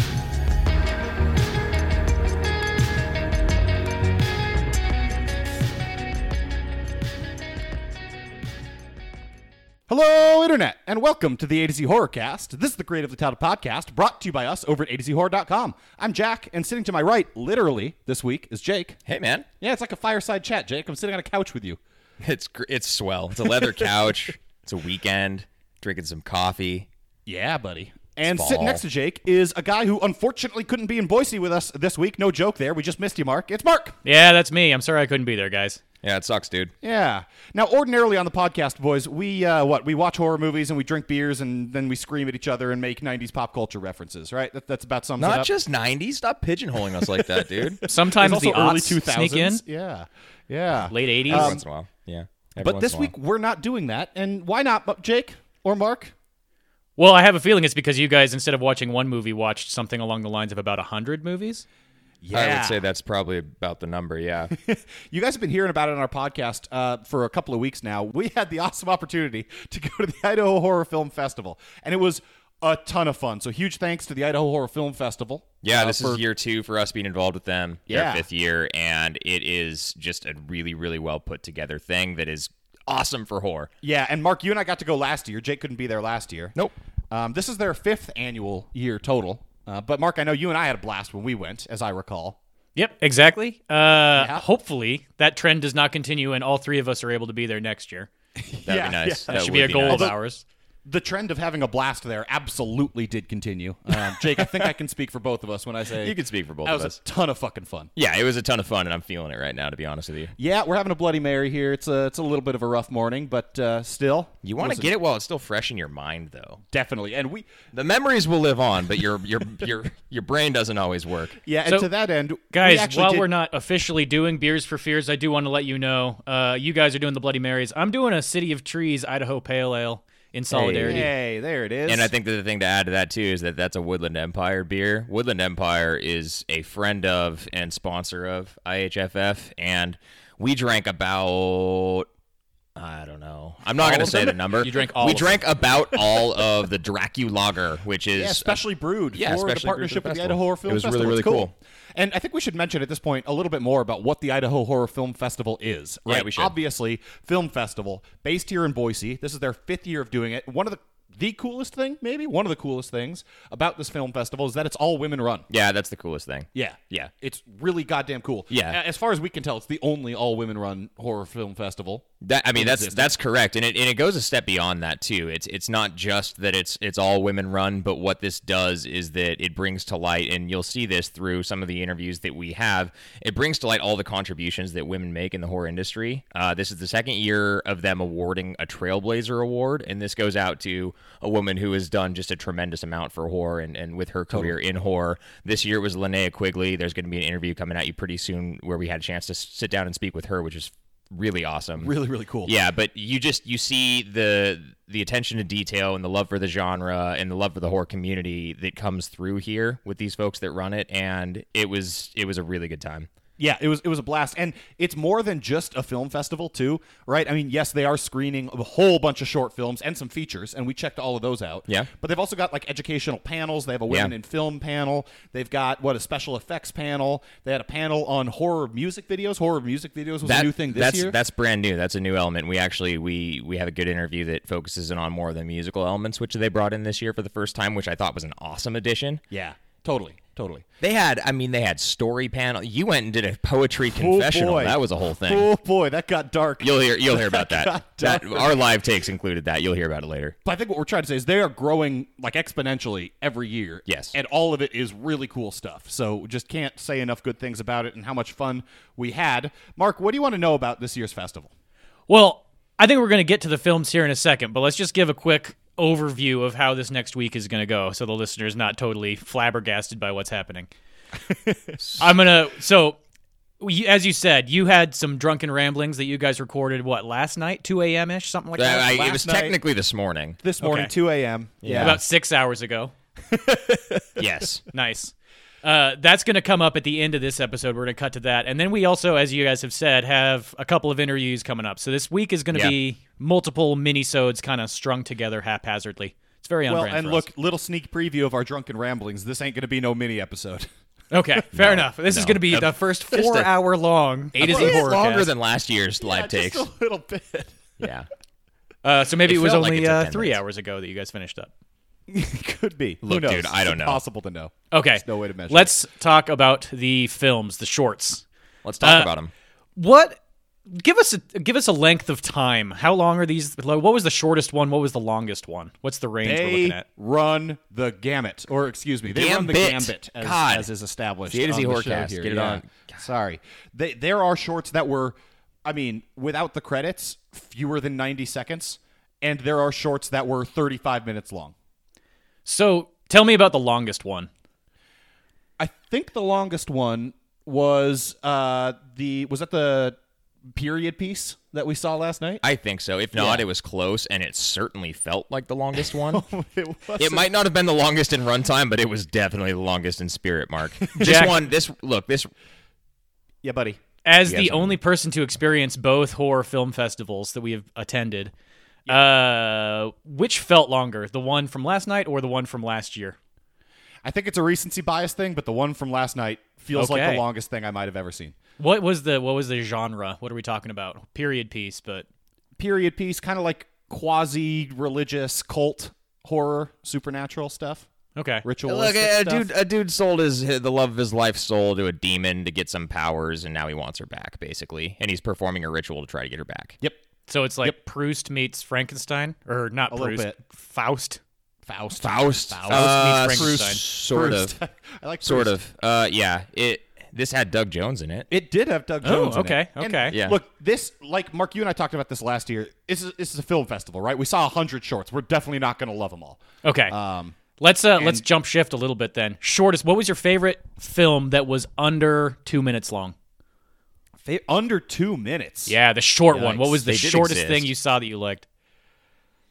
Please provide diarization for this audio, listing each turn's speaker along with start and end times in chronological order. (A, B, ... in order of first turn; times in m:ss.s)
0:09.9-0:19.0 A
0:19.1-0:19.5 B
0:19.6-0:21.8 A
0:22.2-0:26.9 B
0:27.3-0:34.0 A
0:28.2-0:28.8 B
0:34.0-0:35.8 C
0:36.0-0:36.7 B
0:36.8-0:45.5 A
0:45.2-0:47.8 B
0:47.0-0:51.6 A
0:47.9-0:49.6 C
0:50.9-0:51.6 C
0:51.3-0:53.1 B
0:52.6-0:56.1 A
0:57.0-1:01.6 C
1:02.2-1:02.8 A
1:02.3-1:04.5 B
1:04.5-1:16.2 A
1:15.6-1:23.7 B
1:17.9-1:18.3 A
1:23.8-1:26.6 A
1:27.1-1:32.4 A
1:32.8-1:38.1 C
1:34.2-1:34.4 A
1:38.4-1:40.2 A
1:38.7-1:40.1 B
1:39.3-1:40.4 C
1:40.9-1:47.9 A
1:45.9-1:47.0 B
1:48.0-1:50.3 B
1:50.4-1:54.9 A
1:54.4-1:56.6 B
1:56.7-1:57.5 A
1:57.7-2:01.4 B
2:01.4-2:03.3 A
2:02.5-2:11.1 C
2:10.5-2:11.1 B
2:10.8-2:12.1 A
2:11.9-2:22.1 B
2:22.8-2:28.6 B
2:23.8-2:25.4 C
2:23.9-2:24.4 A
2:28.2-2:45.5 A
2:29.1-2:31.5 B
2:36.1-2:36.6 B
2:45.5-2:47.1 B
2:46.5-2:53.1 A
2:48.5-2:48.8 B
2:52.2-3:21.9 B
3:14.3-3:14.6 A
3:21.8-3:22.6 A
3:22.4-3:33.1 B
3:33.4-3:51.2 A
3:50.2-3:59.2 B
3:59.3-4:00.7 A
4:00.8-4:05.5 B
4:03.9-4:08.7 A
4:06.6-4:10.4 B
4:10.4-4:21.5 A
4:13.9-4:14.1 B
4:22.1-4:30.7 C
4:31.2-4:31.8 A
4:32.0-4:33.0 C
4:33.6-4:39.2 C
4:38.6-4:40.4 B
4:39.0-4:39.6 A
4:40.4-4:42.0 A
4:40.6-4:40.9 C
4:41.6-4:42.0 B
4:41.8-4:42.9 C
4:43.3-4:44.3 A
4:44.2-4:44.6 B
4:44.7-4:57.3 C
4:56.7-5:00.7 A
5:01.1-5:05.3 C
5:01.5-5:03.5 B
5:04.4-5:05.0 A
5:04.4-5:06.7 B
5:06.0-5:07.6 A
5:07.8-5:08.1 B
5:08.8-5:11.5 C
5:09.2-5:10.4 B
5:12.1-5:15.7 A
5:13.0-5:14.0 B
5:14.7-5:18.2 C
5:18.6-5:19.3 B
5:18.8-5:19.1 C
5:19.8-5:26.8 C
5:26.2-5:41.5 A
5:29.1-5:30.7 B
5:31.3-5:33.0 B
5:42.5-5:44.3 C
5:45.6-5:50.0 A
5:50.5-5:52.4 A
5:52.4-5:56.2 B
5:55.8-5:57.3 A
5:57.0-6:02.3 B
6:00.8-6:01.2 A
6:01.0-6:01.4 C
6:03.4-6:03.8 A
6:04.0-6:08.3 C
6:04.3-6:04.8 B
6:08.9-6:13.2 C
6:14.0-6:18.4 A
6:16.8-6:17.2 C
6:18.6-6:22.1 C
6:22.6-6:27.9 A
6:28.2-6:28.4 C
6:28.4-6:29.5 A
6:28.7-6:36.8 B
6:37.3-6:41.2 C
6:39.9-6:40.4 A
6:41.6-6:45.5 A
6:42.0-6:44.6 B
6:42.7-6:43.8 C
6:45.2-6:48.3 B
6:48.3-6:57.4 A
6:49.0-6:50.2 C
6:50.1-6:50.4 B
6:56.6-6:57.0 C
6:57.6-7:03.2 C
6:58.0-6:58.2 A
7:04.2-7:05.8 A
7:05.7-7:08.5 C
7:06.3-7:07.7 B